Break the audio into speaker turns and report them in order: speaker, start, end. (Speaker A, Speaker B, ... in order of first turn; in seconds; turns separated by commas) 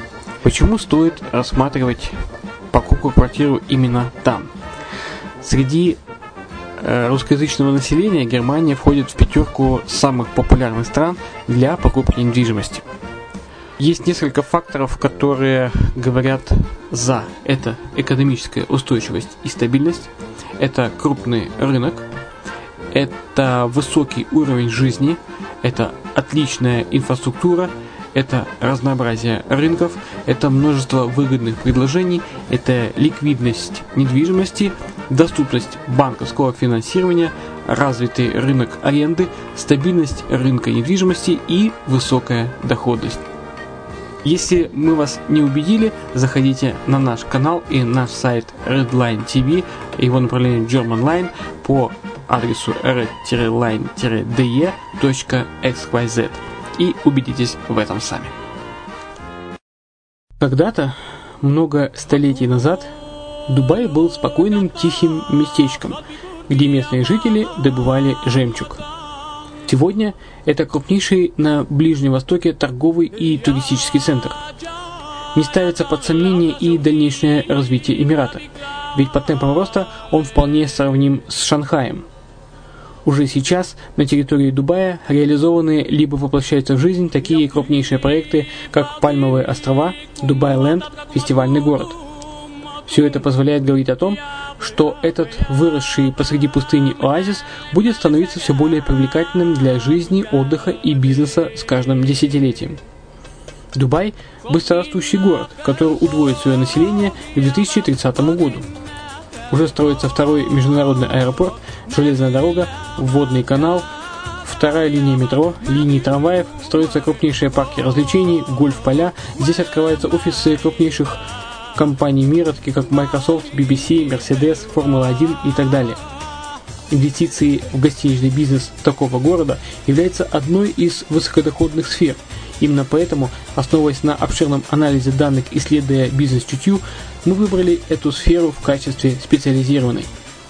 Speaker A: 0.4-2.2, Speaker A: 2.7-4.5, Speaker A: 5.4-6.0, Speaker A: 6.8-12.8, Speaker A: 13.8-22.1, Speaker A: 22.9-43.2, Speaker A: 44.2-58.3, Speaker A: 60.4-62.9, Speaker A: 63.5-68.8, Speaker A: 69.7-74.4, Speaker A: 75.3-82.0, Speaker A: 83.0-92.0, Speaker A: 92.9-102.8, Speaker A: 103.7-108.6, Speaker A: 109.5-113.9, Speaker A: 114.4-121.2, Speaker A: 121.7-126.0, Speaker A: 126.9-140.1